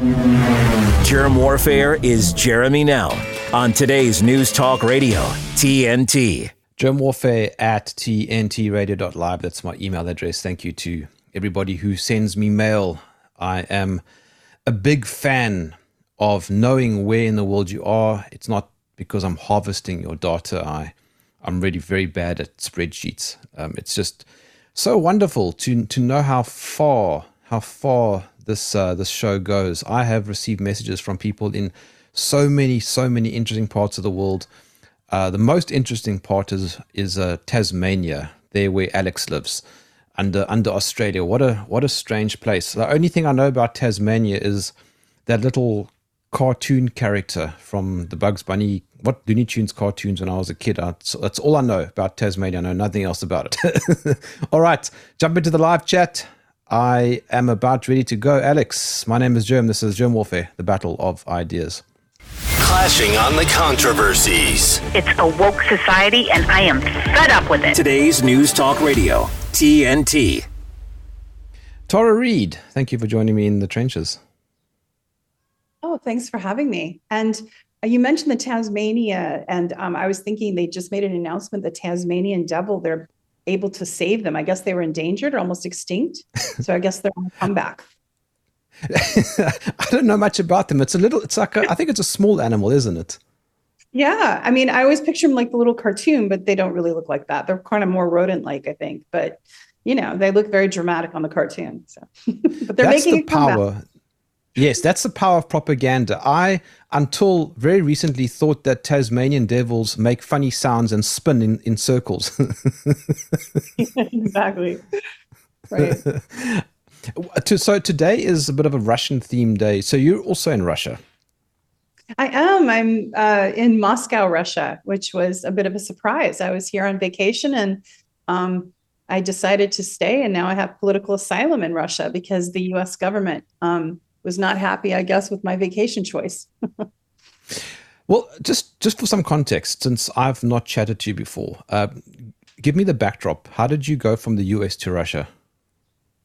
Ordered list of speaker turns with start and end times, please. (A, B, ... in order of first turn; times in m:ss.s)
0:01.0-0:06.5 A
0:06.8-0:14.0 B
0:14.6-0:34.5 B
0:35.1-0:39.6 B
0:40.2-0:44.7 B
0:45.3-1:01.8 B
1:02.6-1:04.8 C
1:04.9-1:07.8 D
1:07.7-1:10.4 A
1:11.9-1:14.2 B
1:15.8-1:27.9 E
1:28.8-1:33.2 B
1:33.9-1:43.6 E
1:42.8-1:43.8 B
1:44.6-1:53.6 B
1:53.8-1:54.8 E
1:55.7-1:56.0 E
1:55.8-2:01.0 B
2:02.2-2:16.8 E
2:18.1-2:22.0 B
2:22.6-2:25.3 B